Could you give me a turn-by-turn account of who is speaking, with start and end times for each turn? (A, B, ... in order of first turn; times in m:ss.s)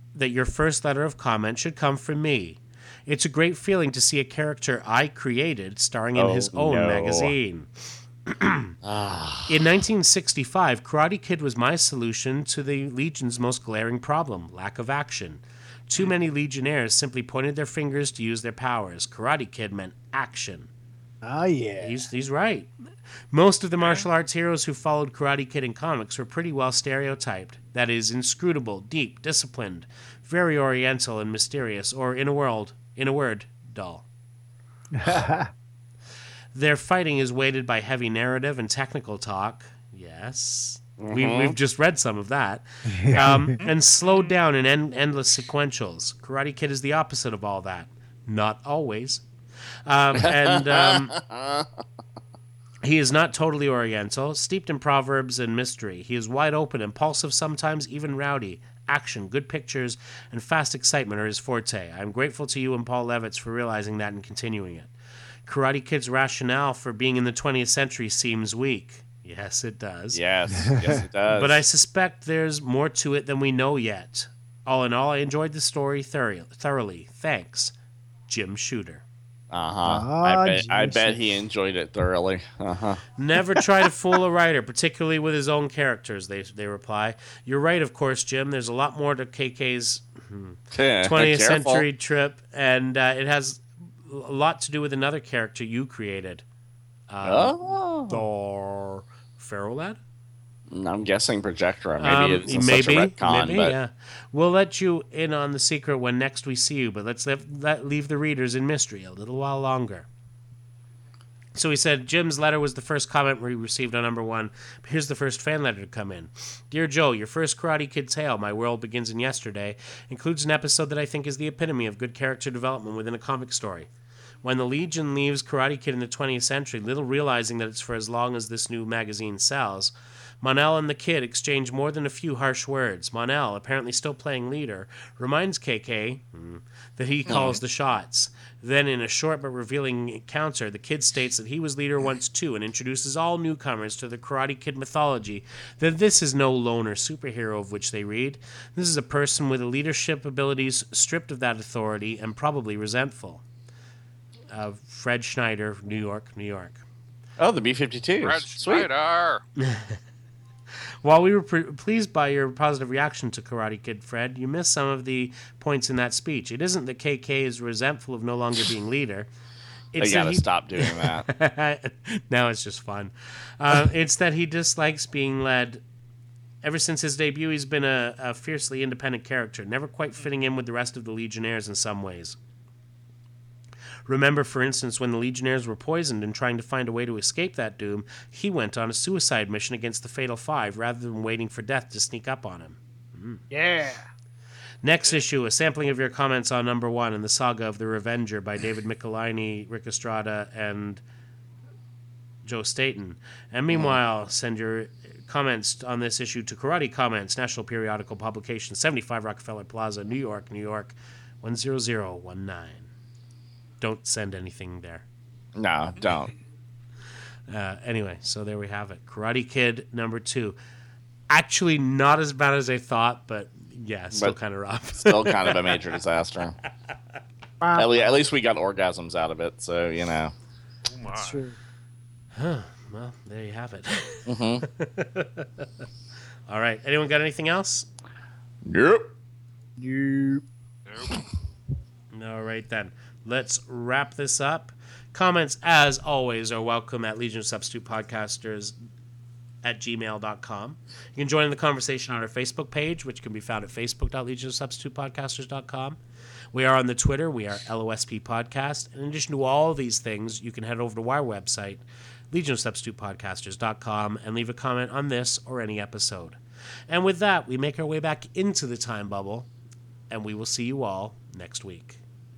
0:00.1-0:08.8 A
0:06.1-0:07.4 B
0:08.8-0:09.6 B
0:09.4-0:20.7 A
0:21.2-0:22.0 C
0:21.8-0:22.7 A
0:23.3-0:34.0 A
0:23.8-0:24.1 D
0:34.9-0:35.5 C
0:36.5-0:49.2 A
0:41.0-0:41.6 B
0:42.8-0:43.6 C
0:43.6-0:44.4 D
0:49.8-0:51.2 A
0:50.2-0:51.7 B
0:52.8-1:04.9 A
1:05.4-1:10.2 A
1:10.1-1:11.6 B
1:10.5-1:11.0 C
1:11.3-1:17.7 A
1:18.3-1:19.0 A
1:19.5-1:23.0 B
1:19.8-1:21.2 C
1:23.2-1:36.4 A
1:30.7-1:31.8 B
1:37.1-1:40.0 A
1:37.2-1:38.2 B
1:40.7-1:43.8 B
1:42.0-1:50.1 A
1:51.5-2:03.9 A
2:04.4-2:33.4 A
2:17.3-2:17.6 B
2:34.5-2:36.8 A
2:37.4-2:38.9 B
2:38.2-2:39.4 D
2:39.6-2:40.0 A
2:41.0-2:49.3 A
2:49.9-2:55.8 A
2:50.0-2:51.3 B
2:56.6-3:02.4 A
3:04.1-3:13.4 A
3:13.5-3:14.0 C
3:14.8-3:21.0 A
3:22.4-3:32.9 A
3:23.7-3:24.0 B
3:33.8-3:35.0 A
3:35.5-3:36.3 B
3:37.5-3:40.6 A
3:41.3-3:45.8 A
3:45.0-3:46.6 B
3:47.6-3:48.2 C
3:47.7-3:50.3 B
3:50.9-3:51.4 D
3:51.1-3:51.5 C
3:52.3-3:55.8 A
3:54.3-3:54.7 B
3:56.5-3:57.9 A
3:58.6-3:59.1 B
3:59.8-4:00.4 C
4:00.8-4:01.2 D
4:02.1-4:08.7 A
4:09.6-4:16.0 A
4:16.5-4:26.4 A
4:26.9-4:29.5 A
4:30.1-4:32.0 A